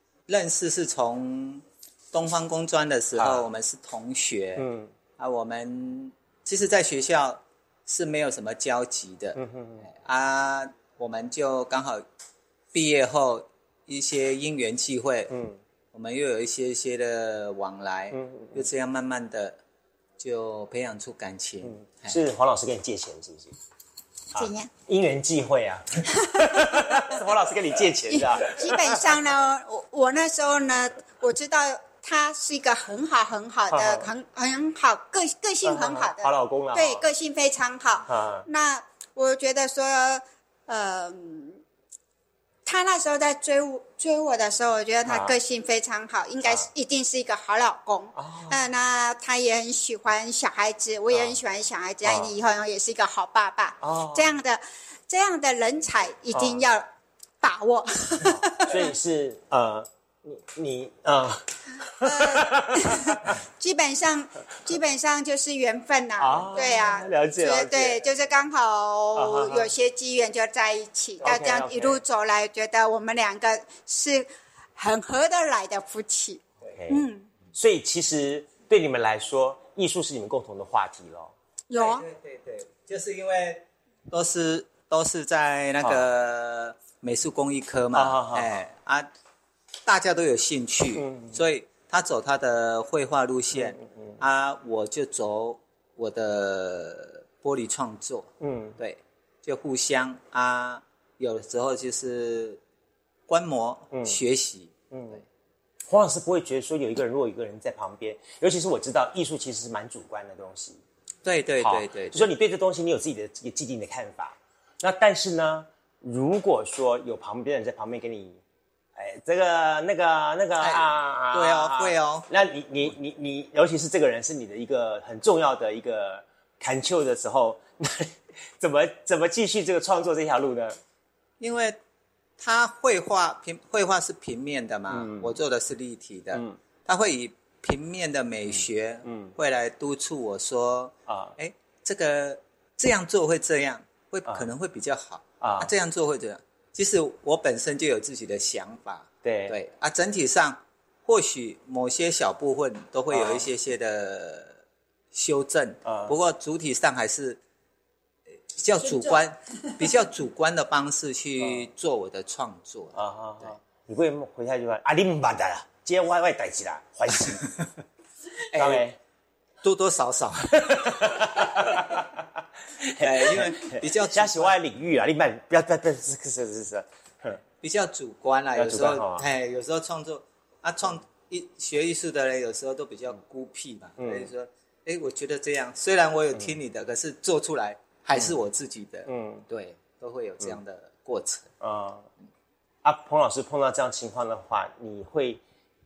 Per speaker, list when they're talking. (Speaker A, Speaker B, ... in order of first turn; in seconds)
Speaker A: 0.3-4.7, 5.2-12.0, 12.7-15.3, 15.9-19.6, 20.2-22.2, 81.7-89.1, 89.8-102.6, 103.3-105.2, 111.2-112.3, 120.6-122.3, 131.4-131.8, 132.4-154.6, 155.1-157.4, 158.5-163.5, 168.5-168.8, 169.6-172.0, 173.0-174.6, 177.6-191.5
Speaker B: 3.1-3.5, 4.6-4.9, 9.4-9.9, 15.3-15.6, 18.1-18.6, 21.6-23.6, 24.3-29.0, 33.7-34.1, 35.6-37.1, 38.1-38.5, 45.1-45.3, 48.2-48.6, 51.1-51.4, 52.0-52.3, 53.8-54.3, 56.3-56.6, 58.2-63.2, 66.2-68.2, 69.2-69.7, 71.2-72.0, 76.7-77.0, 77.5-81.3, 87.9-88.5, 91.0-91.4, 93.5-94.2, 98.4-98.8, 103.9-104.2, 104.9-105.2, 105.9-110.8, 111.6-118.4, 119.0-130.8, 134.9-135.3, 138.5-139.3, 141.1-141.3, 145.4-145.7, 149.2-149.6, 153.1-153.5, 155.8-156.1, 161.4-161.7, 162.9-167.4, 168.5-169.0, 170.6-172.2, 172.8-177.4, 178.6-179.2, 184.0-184.3, 189.1-189.5, 191.6-192.1, 192.8-195.4
Speaker C: 24.4-24.7, 28.1-41.6, 42.6-56.9, 57.4-58.8, 62.0-77.3, 81.7-82.0